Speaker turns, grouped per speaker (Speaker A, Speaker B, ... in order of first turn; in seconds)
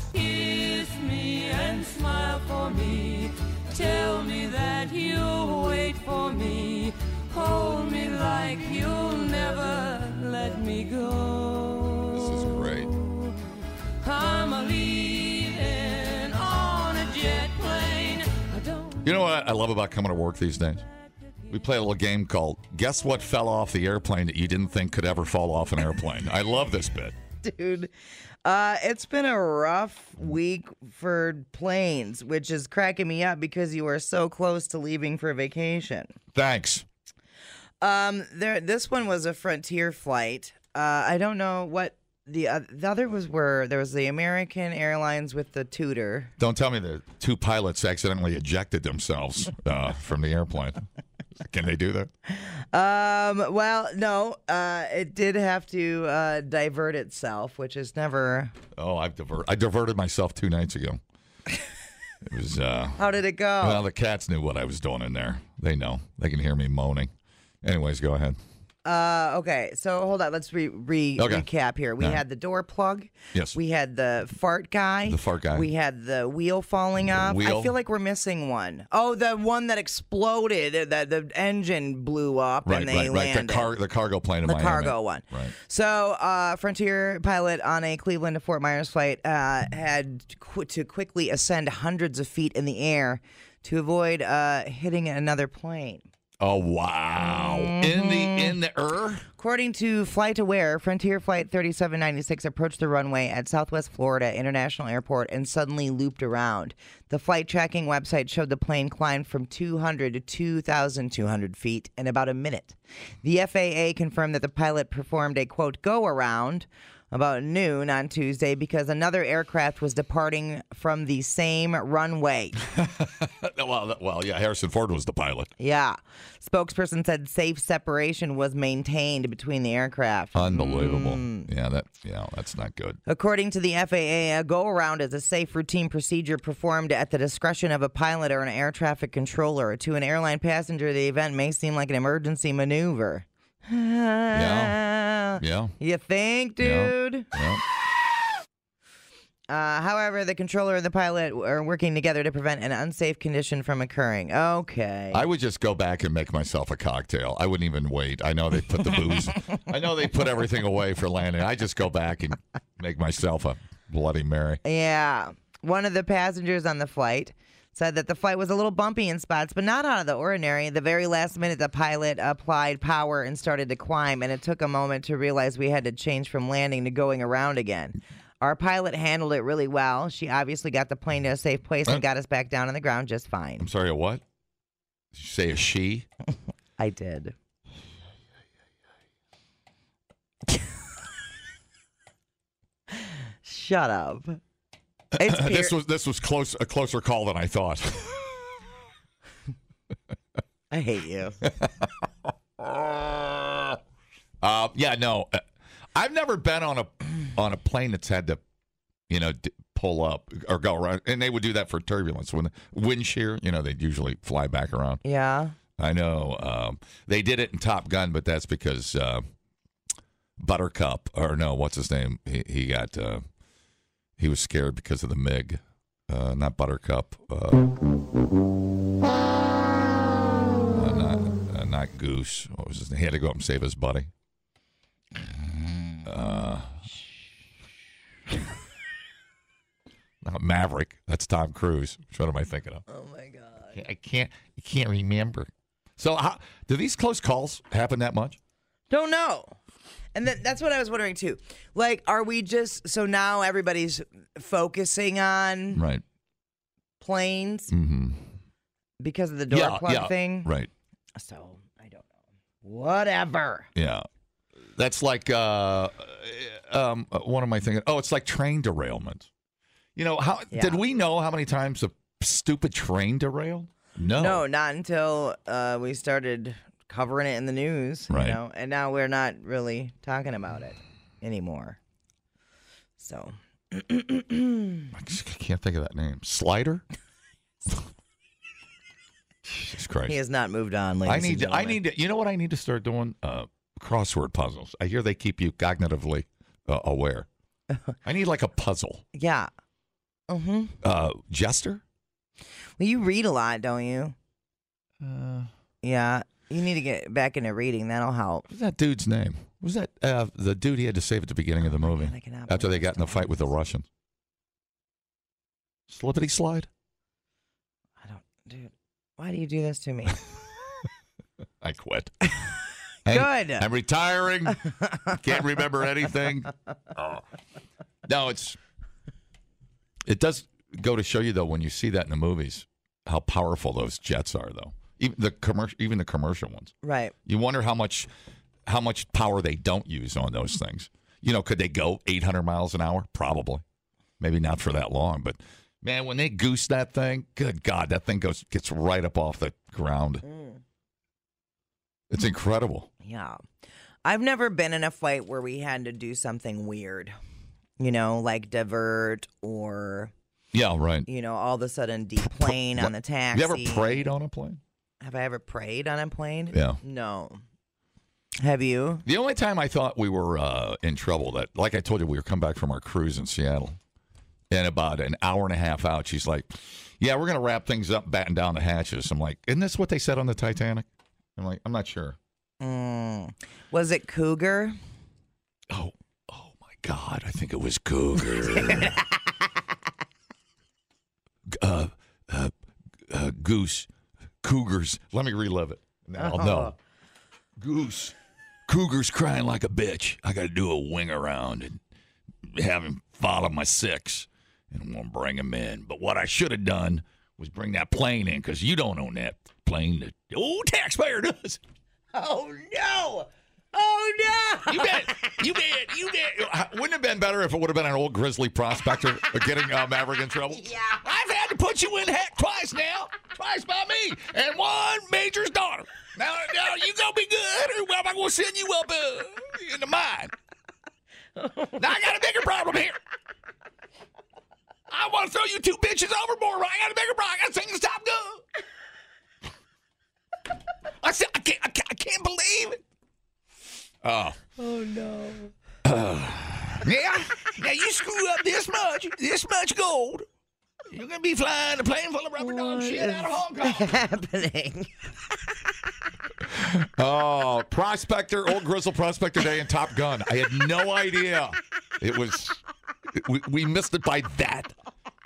Speaker A: 0.1-12.1, 14.0-19.0
Speaker B: 12.1-12.9, 19.0-20.9, 21.5-27.2, 36.3-36.9, 46.4-50.8, 51.4-52.1, 58.8-61.0, 62.2-63.0, 63.6-67.1, 67.6-68.4, 71.2-71.5, 75.1-75.7, 77.0-77.8, 82.7-85.5, 96.4-99.3, 122.7-125.5, 130.3-133.0, 144.3-144.8, 145.4-145.8, 146.6-147.6, 155.1-164.6, 183.6-184.2, 185.1-186.1, 195.2-198.4, 201.4-201.9, 202.6-203.8, 204.4-208.4, 209.1-215.0, 215.8-219.3, 220.4-223.2, 224.2-227.7, 230.7-234.1, 236.1-236.8, 240.2-242.8, 243.7-248.4, 255.7-256.0, 257.7-258.4, 259.5-260.7, 263.8-264.1, 264.8-269.3, 270.0-274.4, 278.1-278.4, 284.9-286.8, 289.4-290.2, 291.1-297.3, 298.0-299.0, 300.8-301.8, 305.0-305.5, 308.5-313.9, 315.9-316.7, 321.6-322.3, 323.1-327.2, 328.1-328.6, 330.1-336.7, 337.3-338.1, 338.7-343.6, 344.2-350.2, 352.1-352.9, 360.5-361.1, 362.2-364.6, 366.5-366.8, 369.1-373.8, 374.5-382.2, 385.7-389.0, 391.5-392.5, 393.1-393.9, 394.4-396.7, 397.6-398.1, 398.7-401.8, 402.4-411.6, 414.7-430.3, 431.8-433.0, 434.9-438.4, 440.9-442.8, 444.0-444.4, 445.8-450.3, 450.9-453.9, 456.5-464.7
Speaker C: 27.4-27.9, 28.4-36.1, 37.8-46.3, 52.3-58.5, 63.0-63.8, 68.8-83.7, 84.5-96.1, 97.2-98.6, 99.4-122.6, 125.6-131.5, 133.1-147.3, 149.5-155.2, 164.6-183.7, 186.8-187.3, 193.4-194.4, 195.2-195.8, 200.7-201.4, 215.0-215.6, 242.9-243.8, 248.9-249.6, 250.2-255.8, 257.0-257.7, 259.0-260.5, 261.2-262.1, 262.6-263.7, 270.5-270.8, 274.2-281.8, 283.0-284.9, 290.1-291.8, 299.1-299.5, 300.3-300.8, 302.8-304.1, 305.8-308.5, 311.7-313.5, 318.0-320.2, 323.1-323.7, 324.8-325.2, 336.8-337.1, 350.2-350.6, 353.0-353.4, 354.1-357.2, 357.8-360.1, 361.1-364.1, 365.0-367.4, 368.4-369.0, 382.6-384.8, 388.6-389.0, 396.2-396.8, 412.1-415.4, 420.6-421.0, 431.4-431.8, 444.6-445.5, 452.4-454.9